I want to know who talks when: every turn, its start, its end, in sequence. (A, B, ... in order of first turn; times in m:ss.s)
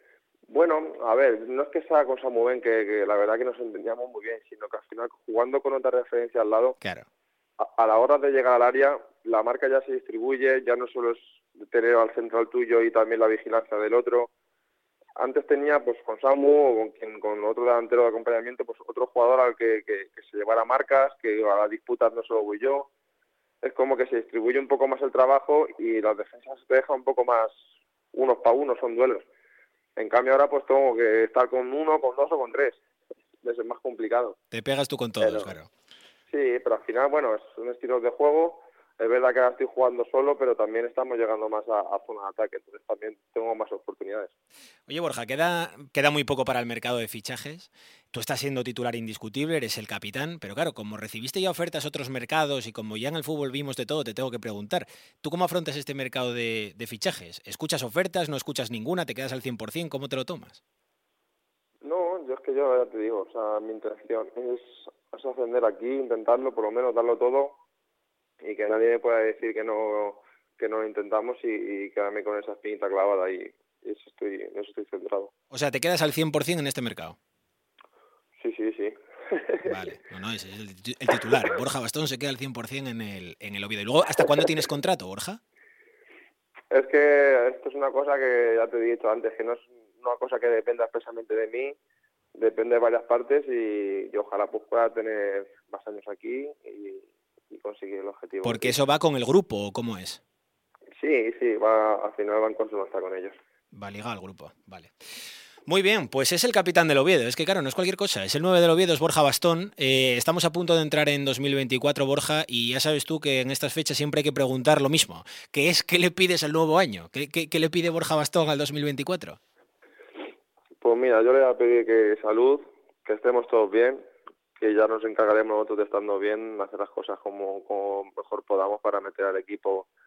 0:00.5-0:06.8 A
0:06.8-0:07.0 B
0:07.6-0:14.3 A
0:15.2-0:22.9 A
0:23.6-0:27.5 A
0:28.1-0:29.2 A
0:30.0-0:32.8 A
0:33.4-0:34.4 A
0:34.5-0:35.7 B
0:35.2-0:35.5 A
0:36.3-0:44.3 A
0:44.9-1:00.6 B
1:01.8-1:07.6 A
1:08.4-1:15.3 A
1:15.5-1:17.2 B
1:18.4-1:19.7 A
1:19.6-1:25.4 B
1:26.7-1:31.7 A
1:32.4-1:38.7 A
1:38.4-1:40.2 B
1:41.0-1:43.3 A
1:43.7-1:44.9 B
1:45.7-1:59.4 B
2:00.8-2:04.0 A
2:04.6-2:09.9 A